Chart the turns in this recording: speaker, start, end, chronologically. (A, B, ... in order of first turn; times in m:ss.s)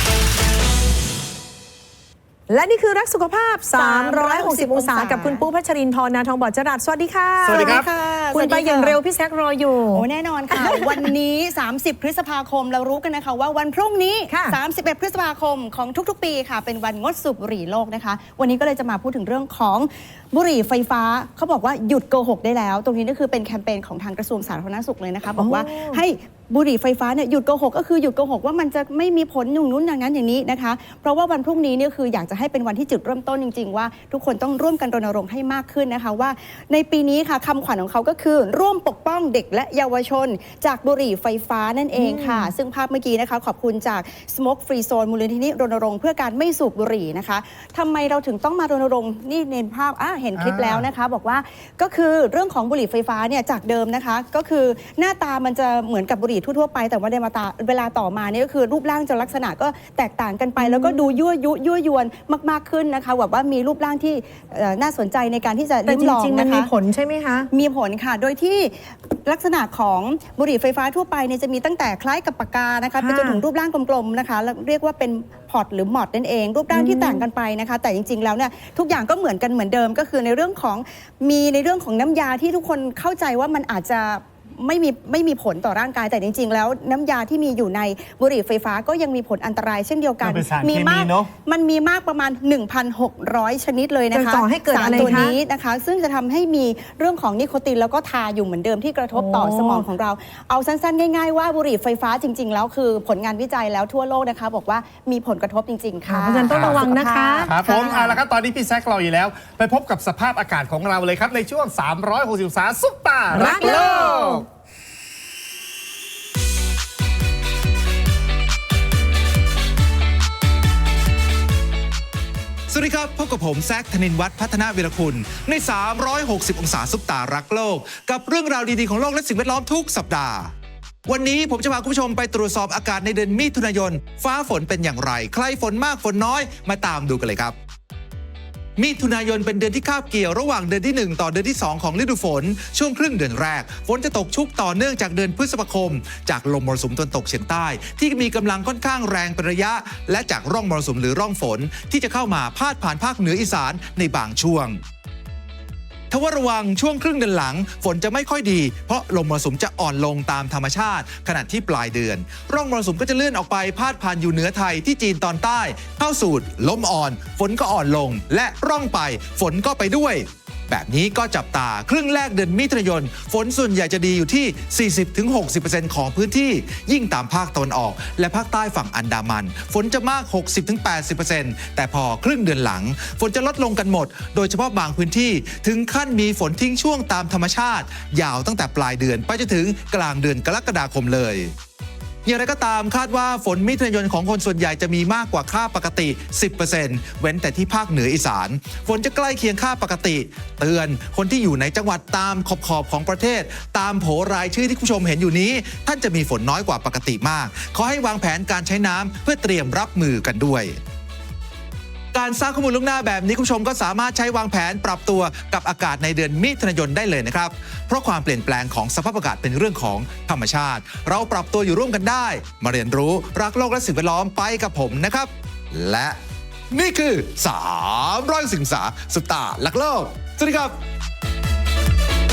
0:02.5-0:11.1 A
0:03.7-0:05.4 B
0:07.4-0:07.9 C
0:07.5-0:09.0 B
0:09.9-1:06.7 B
0:14.3-0:14.6 A
0:25.4-0:26.0 A
0:41.9-0:42.5 A
0:50.4-0:50.9 C
1:00.6-1:01.0 A
1:05.9-1:07.5 A
1:07.5-1:47.6 B
1:13.0-1:13.4 A
1:16.7-1:17.2 A
1:30.2-1:31.3 C
1:34.1-1:35.4 A
1:39.1-1:39.9 A
1:46.1-1:48.2 A
1:46.5-1:46.9 C
1:47.4-1:54.4 C
1:53.3-1:54.4 A
1:53.6-1:54.0 B
2:02.7-2:10.5 D
2:11.1-2:17.6 D
2:18.8-2:34.8 D
2:36.1-3:11.5 D
3:12.2-3:30.8 D
3:32.1-3:46.2 D
3:46.7-3:50.8 D